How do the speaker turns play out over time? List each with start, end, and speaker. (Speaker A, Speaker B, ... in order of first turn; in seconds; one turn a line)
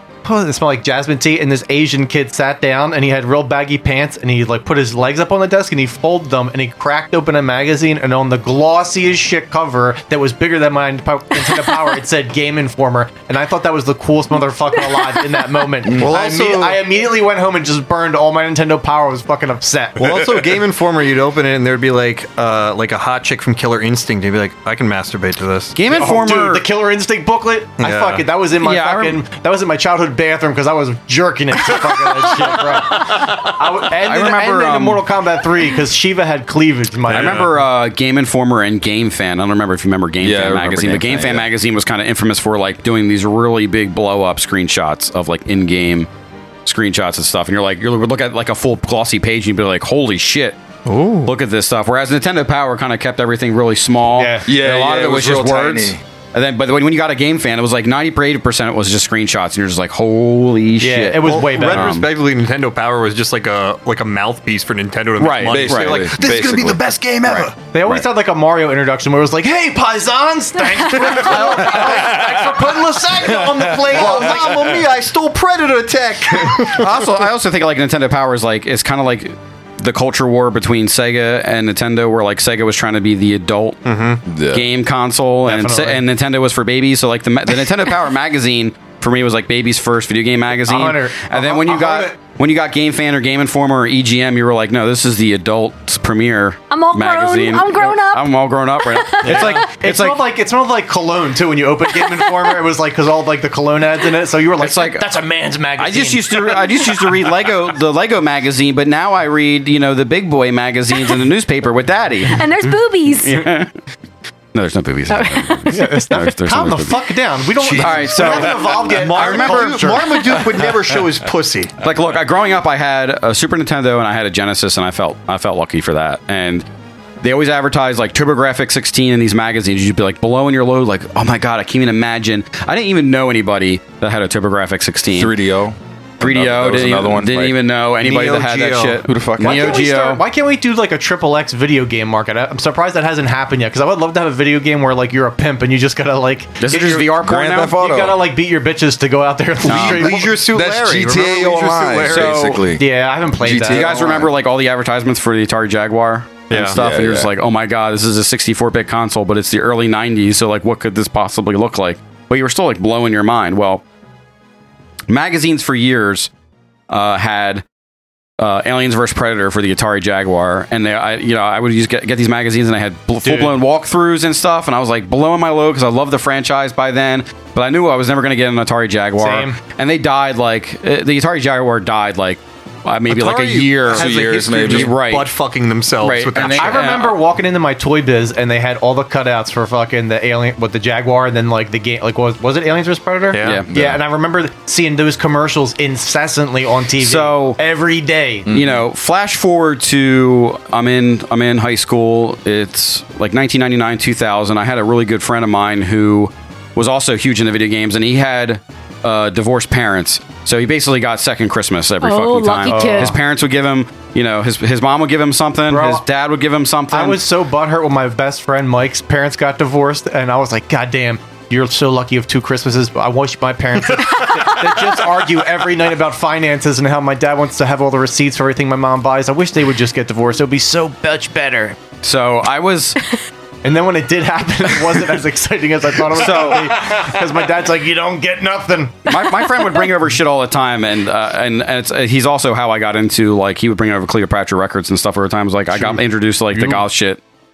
Speaker A: 0.2-20.1
Speaker B: 15.9-16.8
Speaker B: 20.0-25.7
Speaker C: 25.7-26.6
Speaker A: 25.9-37.6
Speaker B: 27.8-28.3
Speaker C: 28.6-29.2
Speaker C: 34.0-35.0
Speaker B: 37.1-37.5
Speaker C: 37.1-46.1
Speaker D: 40.2-41.5
Speaker C: 46.6-50.6
Speaker B: 50.9-51.3
Speaker C: 51.2-62.1
Speaker A: 54.1-54.5
Speaker D: 54.4-56.0
Speaker A: 60.8-61.9
Speaker B: 61.2-67.5
Speaker C: 65.2-66.1
Speaker D: 65.4-68.0
Speaker C: 67.2-67.5
Speaker A: 67.6-74.7
Speaker C: 71.3-72.1
Speaker D: 71.4-72.6
Speaker D: 73.4-74.7
Speaker B: 73.7-76.9
Speaker C: 76.7-83.8
Speaker B: 83.8-84.2
Speaker D: 84.2-84.7
Speaker C: 84.5-100.2
Speaker A: 85.5-86.0
Speaker A: 90.6-92.1
Speaker E: 96.7-99.6
Speaker A: 99.2-107.2
Speaker E: 101.9-102.5
Speaker C: 104.6-105.1
Speaker C: 105.8-112.5
Speaker E: 112.3-113.5
Speaker C: 113.2-113.7
Speaker C: 114.5-117.1
Speaker E: 115.1-116.1
Speaker A: 115.7-120.4
Speaker C: 117.8-120.4
Speaker D: 117.8-118.7
Speaker B: 118.9-121.7
Speaker C: 121.8-126.6
Speaker C: 127.2-135.3
Speaker D: 135.1-137.6
Speaker C: 136.2-140.2
Speaker B: 138.0-139.0
Speaker D: 139.1-139.8
Speaker A: 139.4-150.3
Speaker C: 146.6-147.2
Speaker D: 147.1-148.2
Speaker C: 149.6-150.0
Speaker D: 149.7-152.8
Speaker B: 149.7-152.4
Speaker C: 152.1-152.7
Speaker A: 152.6-153.9
Speaker D: 153.4-154.3
Speaker C: 153.5-163.8
Speaker B: 156.5-156.8
Speaker D: 156.5-157.3
Speaker C: 165.1-166.3
Speaker C: 166.9-167.6
Speaker C: 168.4-185.3
Speaker A: 173.2-173.6
Speaker A: 179.2-179.6
Speaker B: 183.1-186.9
Speaker D: 183.8-184.9
Speaker C: 186.0-187.2
Speaker A: 186.5-198.5
Speaker B: 193.3-193.6
Speaker C: 193.4-193.7
Speaker D: 193.7-194.0
Speaker C: 197.0-197.6
Speaker D: 198.5-198.8
Speaker C: 198.5-217.2
Speaker E: 212.0-213.1
Speaker A: 212.7-213.2
Speaker A: 215.7-216.0
Speaker A: 216.9-231.8
Speaker C: 232.0-233.0
Speaker A: 233.6-239.0
Speaker C: 236.1-237.0
Speaker C: 239.1-247.2
Speaker A: 245.7-246.8